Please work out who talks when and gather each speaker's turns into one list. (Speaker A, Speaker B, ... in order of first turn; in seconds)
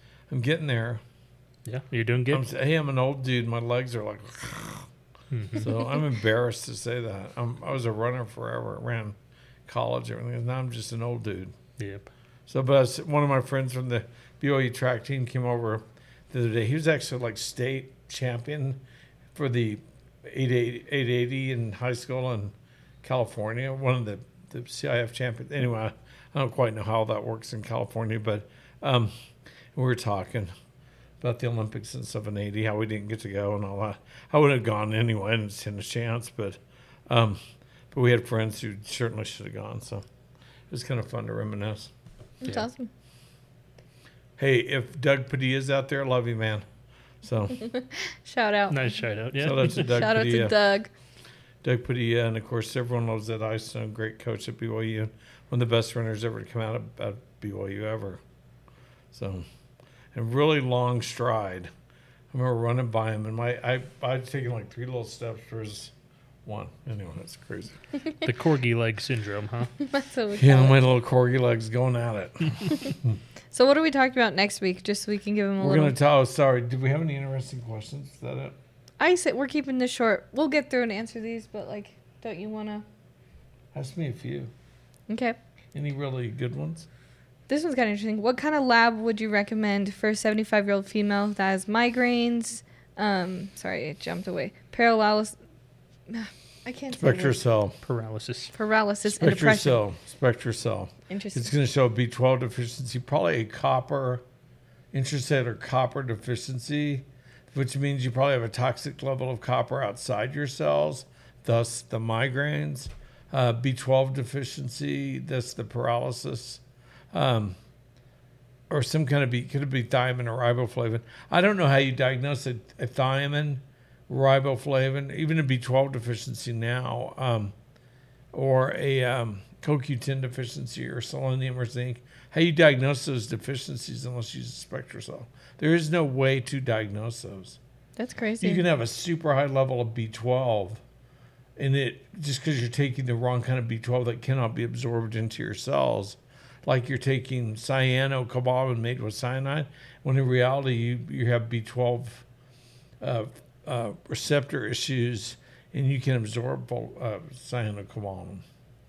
Speaker A: 0.3-1.0, 2.3-4.9, 5.5-11.6, 12.5-18.8, 19.4-29.1, 29.7-30.5, 31.2-40.0, 40.7-41.9, 44.4-46.7, 47.2-47.6, 49.4-50.5, 51.6-58.2, 59.1-59.5, 60.1-61.7, 62.3-65.9, 66.5-67.8, 70.3-73.2, 75.6-78.6, 83.7-84.5, 85.7-86.9, 97.0-97.8, 99.1-104.2, 104.9-117.6, 118.7-127.5, 128.3-137.6, 138.4-140.8, 141.6-152.3, 153.0-158.4
Speaker B: 1.7-2.4, 5.3-5.7, 11.8-12.1, 48.7-50.0, 68.2-69.7, 97.8-98.5
Speaker C: 42.4-42.9, 47.6-48.8, 49.7-50.9, 69.8-70.8, 73.5-76.0, 79.0-82.8, 85.1-85.4, 87.5-95.4, 96.1-97.4, 98.5-99.8, 101.1-101.5, 138.0-138.6